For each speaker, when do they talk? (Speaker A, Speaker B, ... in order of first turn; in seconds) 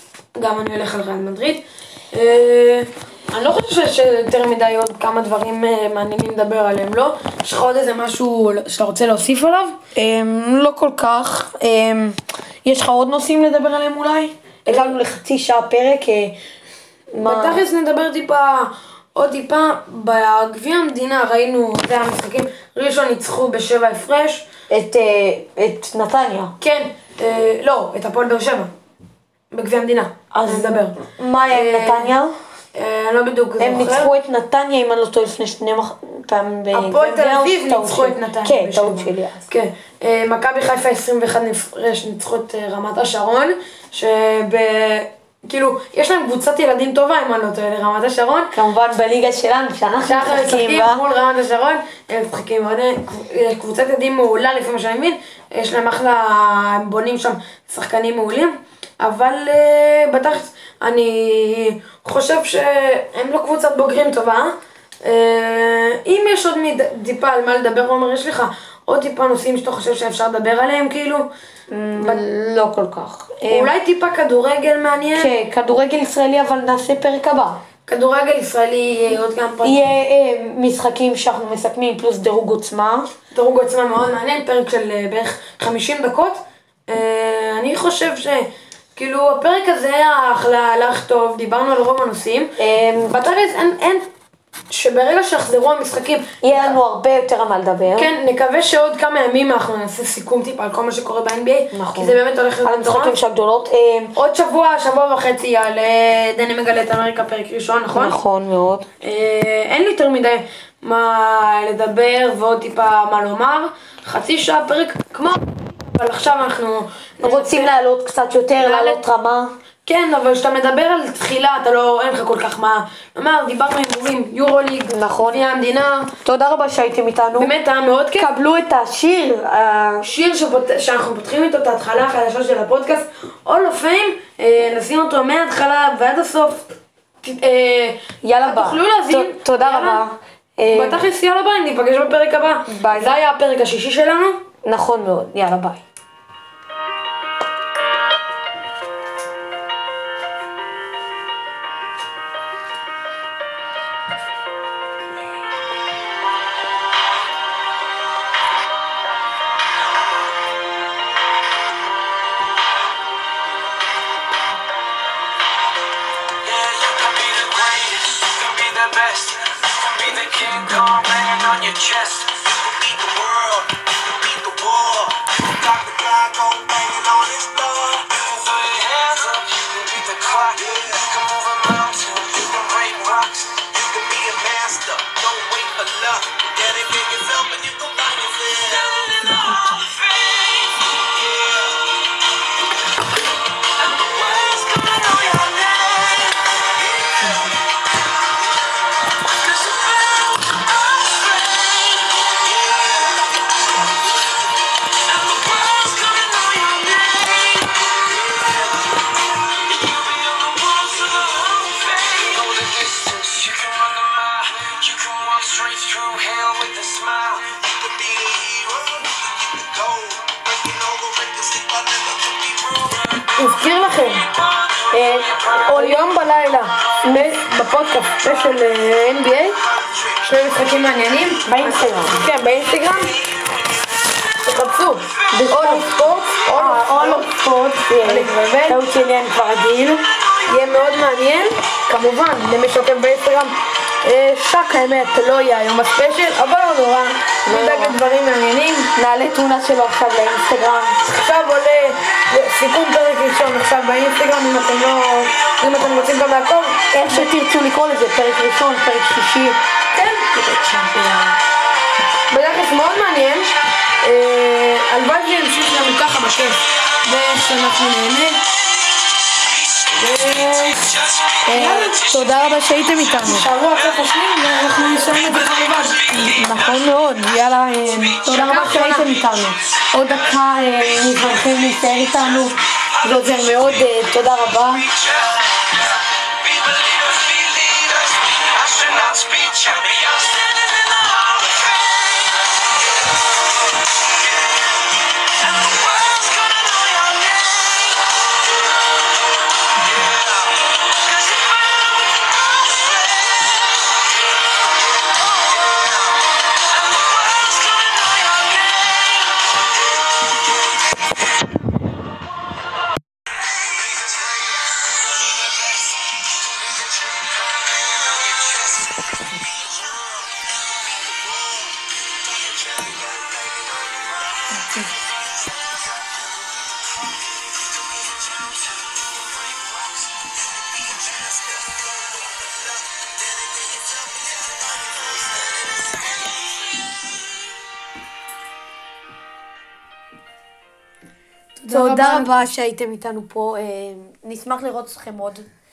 Speaker A: 0.3-9.8, 14.7-14.9, 17.2-24.4, 26.6-28.7, 29.5-31.0, 31.5-32.1, 32.7-34.1, 36.7-48.5, 50.0-71.3, 72.0-72.2, 73.5-75.3, 77.8-79.8, 83.3-92.5, 93.0-94.1, 94.7-96.8, 97.9-103.2, 104.2-108.2, 109.0-117.7, 118.6-119.0, 119.8-126.1, 127.3-128.3, 130.0-140.0, 140.7-144.4, 223.3-224.2, 225.7-229.6, 230.2-233.1, 234.4-237.4, 237.9-238.8, 240.4-248.9, 251.0-257.3, 259.9-260.3, 262.3-268.4, 269.9-270.9, 271.5-271.9, 273.2-276.0, 278.2-279.1, 341.6-342.3
Speaker B: 9.9-16.4, 17.1-17.6, 24.7-26.5, 30.3-32.3, 33.6-39.5, 48.5-51.0, 71.7-73.7, 75.1-77.6, 79.6-83.1, 92.6-93.2, 96.4-98.1, 101.7-104.2, 107.9-108.9, 117.2-119.5, 124.9-125.4, 126.2-127.5, 128.2-130.1, 138.2-141.0, 142.7-143.1, 144.6-145.8, 224.9-226.1, 227.0-227.3, 231.4-232.3, 235.3-235.9, 236.5-240.0, 247.4-247.9, 248.9-251.0, 256.9-259.6, 260.3-261.4, 271.4-273.5, 276.1-284.9, 341.6-345.4
Speaker C: 166.4-192.1, 193.7-197.6, 199.4-204.1, 204.9-223.2, 225.1-225.5, 229.7-230.3, 233.1-233.8, 270.7-272.6, 274.9-276.6, 284.7-285.7, 286.4-292.3, 295.2-298.1, 299.8-303.3, 305.5-309.4, 313.6-324.6, 326.0-334.8